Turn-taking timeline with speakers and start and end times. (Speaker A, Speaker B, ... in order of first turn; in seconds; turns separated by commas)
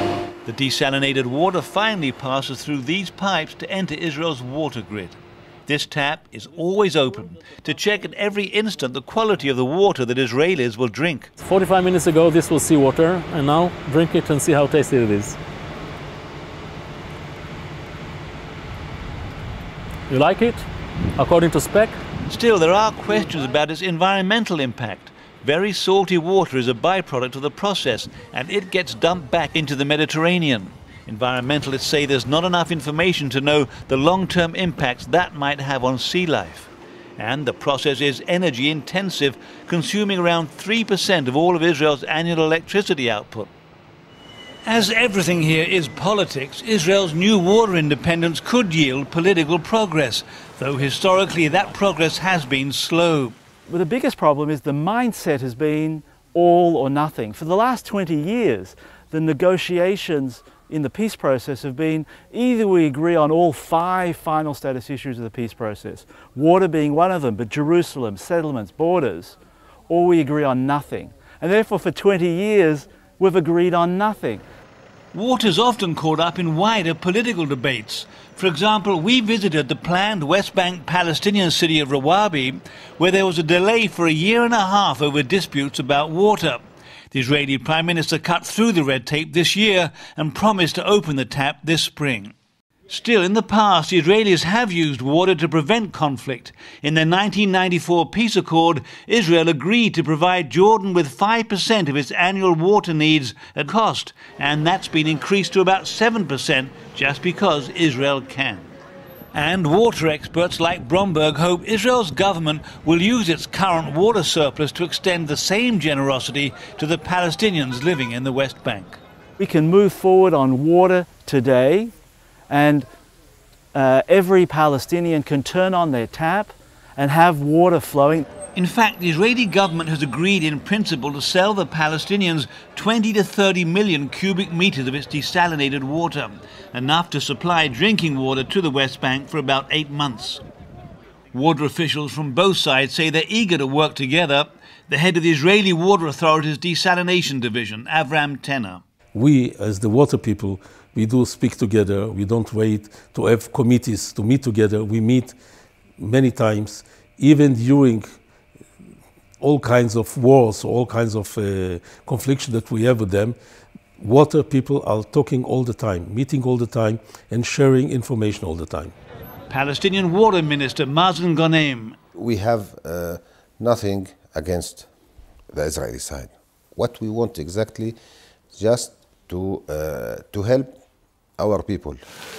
Speaker A: 0.5-11.3, Speaker B: 11.4-15.4, Speaker B: 20.1-20.7, Speaker B: 21.2-22.0, Speaker A: 22.3-43.5, Speaker A: 44.6-53.4, Speaker C: 53.7-69.4, Speaker C: 69.9-74.4, Speaker A: 75.1-92.3, Speaker A: 92.9-108.7, Speaker A: 109.3-119.0, Speaker C: 119.4-121.9, Speaker C: 122.5-122.9, Speaker C: 123.7-128.3, Speaker A: 128.5-140.4, Speaker A: 141.3-148.8, Speaker D: 149.2-155.4, Speaker D: 156.0-158.2, Speaker D: 159.4-163.4, Speaker D: 164.0-168.9, Speaker A: 169.5-172.0, Speaker E: 172.1-174.9, Speaker E: 175.5-178.0, Speaker E: 178.5-180.8, Speaker E: 181.4-182.0